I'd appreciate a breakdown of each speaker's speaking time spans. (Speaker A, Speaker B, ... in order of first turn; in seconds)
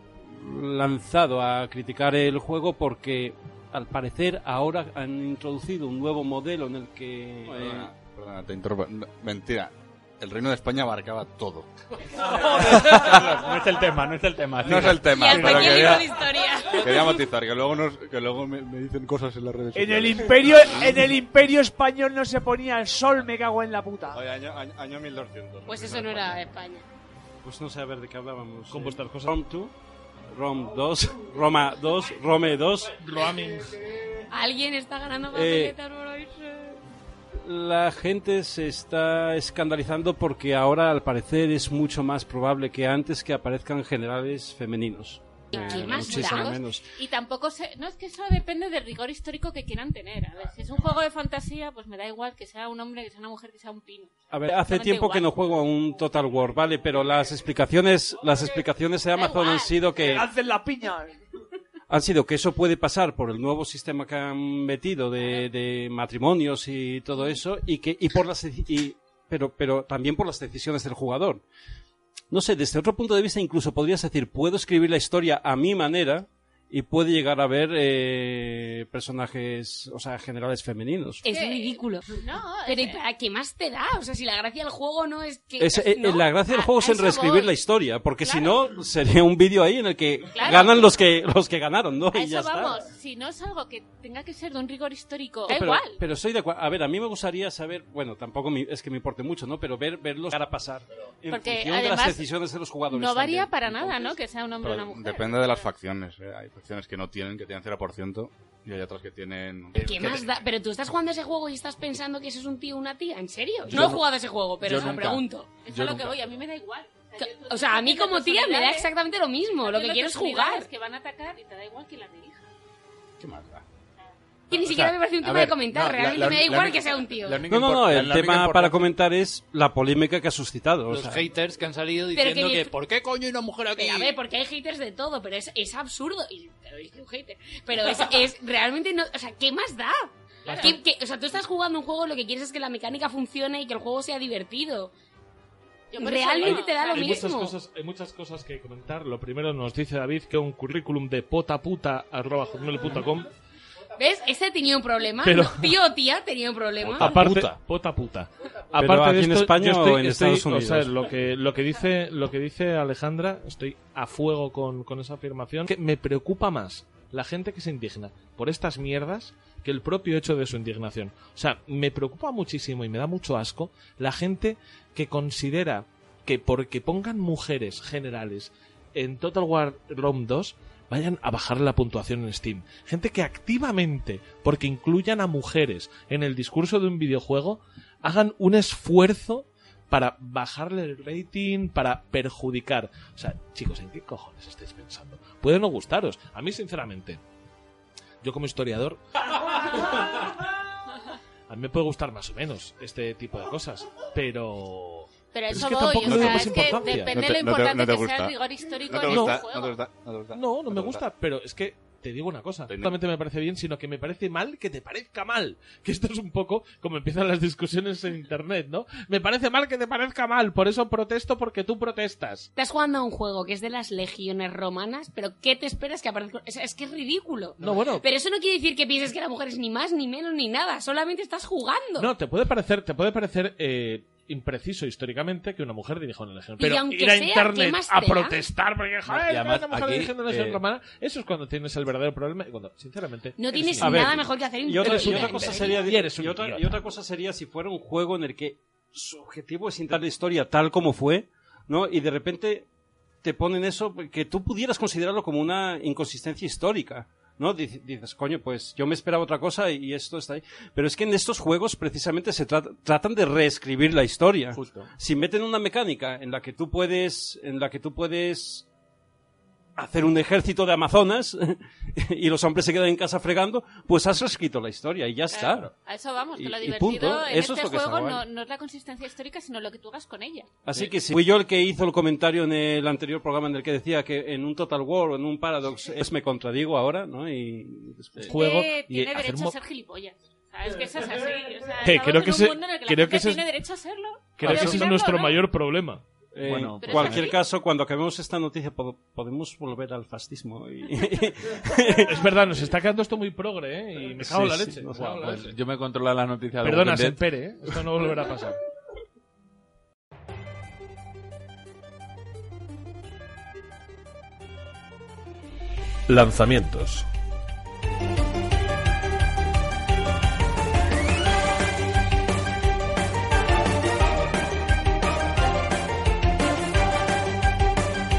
Speaker A: 0.2-7.9, 27.4-29.7, 30.3-33.0, 35.3-35.8, 37.4-46.9, 54.3-60.3, 61.9-71.4, 72.3-81.2, 85.6-92.8, 95.5-104.2, 127.5-131.2, 157.1-157.5, 158.8-160.9, 243.8-252.7, 253.2-268.6, 269.8-275.7, 276.3-278.2, 280.6-288.4, 294.5-294.8, 296.3-302.2, 304.2-305.5
Speaker B: 7.5-11.7, 12.3-13.4, 14.6-16.1, 16.7-21.2, 24.1-26.5, 104.6-110.1, 123.2-123.6, 206.0-211.0, 212.7-212.9
Speaker C: 12.1-15.8, 109.8-110.2, 113.7-114.0, 114.6-116.4, 124.5-128.9, 239.1-240.6, 264.5-264.9, 296.4-297.3, 304.9-307.2
Speaker D: 15.1-17.2, 25.7-26.8, 34.3-36.8, 45.5-46.6, 81.2-82.1, 82.6-86.3, 109.8-115.5, 117.2-120.7, 124.5-127.5, 132.1-132.7, 133.8-144.9, 145.9-147.5, 154.0-157.1, 222.6-232.1, 236.6-238.4, 243.4-245.8
Speaker E: 19.7-24.2, 60.0-61.1
Speaker F: 28.7-29.3, 32.9-33.8, 146.4-153.3, 155.2-155.7, 156.9-197.2, 198.2-199.0, 199.6-200.1, 201.5-207.2, 209.0-209.4, 210.3-222.5, 227.6-228.0, 232.0-244.2, 244.8-246.8, 288.2-289.5, 291.8-293.4, 294.4-296.0, 302.0-305.5, 306.6-308.6, 316.1-316.7
Speaker G: 45.5-55.3, 59.1-59.7, 81.3-83.0, 86.6-87.5, 88.2-88.7, 90.3-90.9, 92.1-96.0, 101.3-102.3, 102.9-105.7, 115.6-118.9, 119.5-122.5, 140.5-140.7, 145.9-147.3, 205.3-209.8, 275.3-280.5, 288.3-295.4, 296.8-297.4
Speaker H: 130.9-134.2, 140.5-140.7